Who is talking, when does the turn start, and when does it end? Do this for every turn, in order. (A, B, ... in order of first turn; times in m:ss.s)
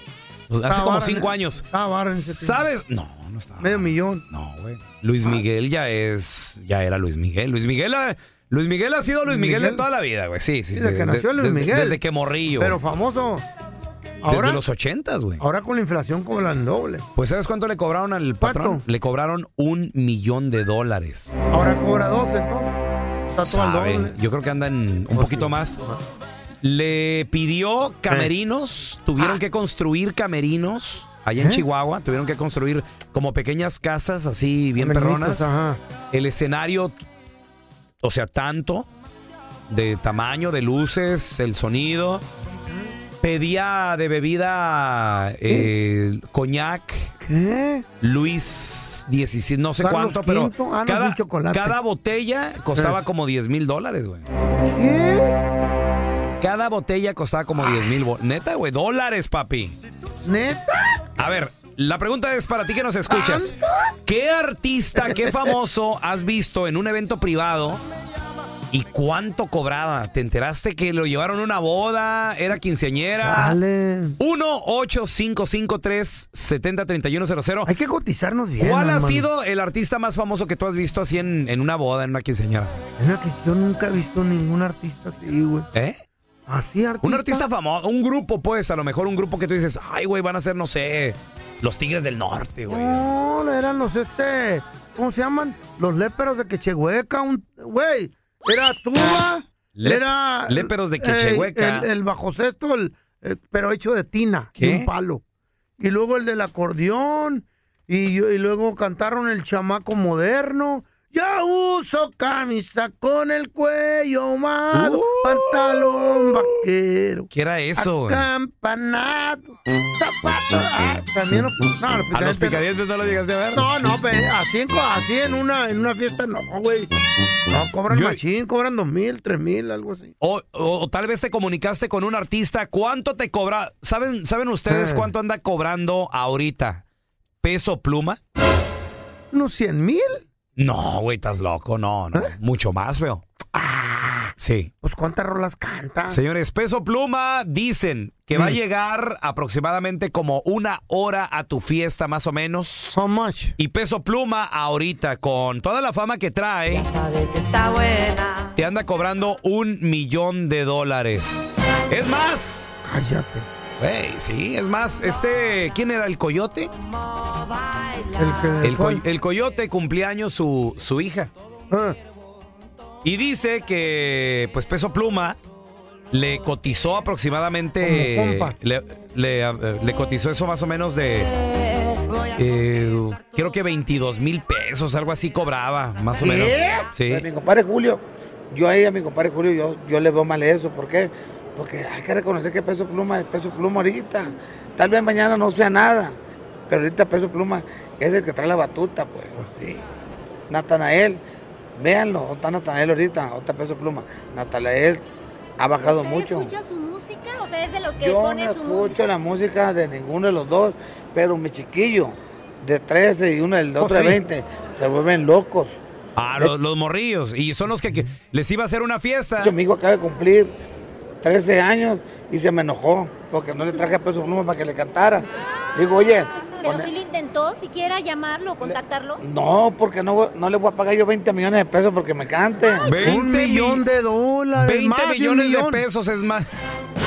0:00.5-0:12.8 A
0:00.7-0:02.7 B
0:03.6-0:04.2 B
0:09.2-0:09.8 B
0:10.7-0:12.0 B
0:12.6-0:13.4 B
0:14.2-0:14.6 B
0:14.3-0:15.4 A
0:15.4-0:17.1 B
0:17.1-0:21.4 A
0:18.4-0:18.8 B
0:21.5-0:22.8 B
0:23.3-0:24.2 B
0:23.4-0:25.8 A
0:25.1-0:26.0 B
0:26.6-0:35.5 A
0:31.4-0:31.6 B
0:34.8-0:35.8 B
0:36.1-0:36.9 A
0:38.0-0:38.9 A
0:39.7-0:42.2 A
0:43.2-0:47.1 A
0:47.2-0:47.8 B
0:48.0-0:54.2 A
0:49.8-0:51.8 B
0:54.7-0:55.4 B
0:56.4-0:59.8 A
1:00.2-1:01.0 B
1:01.2-1:03.5 A
1:03.1-1:03.5 B
1:04.0-1:07.8 A
1:05.0-1:05.5 B
1:08.7-1:13.6 A
1:13.2-1:14.2 B
1:14.2-1:17.7 A
1:17.6-1:19.3 B
1:18.6-1:22.8 A
1:23.0-1:25.7 B
1:25.7-1:26.0 A
1:26.5-1:27.4 B
1:27.0-1:33.0 A
1:32.7-1:45.2 B
1:39.8-1:41.9 A
1:44.6-1:44.9 A
1:45.8-2:02.6 B
1:54.7-1:55.6 A
1:57.3-1:58.3 A
2:02.1-2:03.6 A
2:03.5-2:06.9 B
2:07.5-2:10.1 B
2:07.9-2:08.2 A
2:10.2-2:16.8 A
2:14.7-2:15.1 B
2:17.4-2:18.2 A
2:19.3-2:20.2 B
2:20.6-2:23.2 A
2:23.5-2:26.2 B
2:24.4-2:24.7 A
2:26.1-2:33.0 A
2:32.9-2:33.6 B
2:33.6-2:36.9 A
2:38.5-2:42.7 A
2:42.8-2:43.5 B
2:43.8-2:46.7 A
2:48.1-2:49.0 B
2:48.6-2:51.3 A
2:51.7-2:52.0 B
2:53.0-2:55.4 A
2:56.1-3:01.3 A
2:57.8-2:58.6 B
3:02.3-3:07.3 A
3:06.2-3:06.9 B
3:07.1-3:19.3 C
3:19.3-3:19.8 B
3:20.5-3:21.2 C
3:21.8-3:25.0 C
3:25.6-3:26.5 C
3:25.8-3:29.0 D
3:28.0-3:35.8 C
3:33.8-3:34.2 B
3:36.2-3:39.5 A
3:37.8-3:38.1 B
3:39.4-3:40.6 C
3:41.2-3:46.9 C
3:46.6-3:49.2 D
3:48.6-3:52.9 C
3:52.8-3:53.8 A
3:53.0-3:55.8 B
3:54.6-3:56.5 A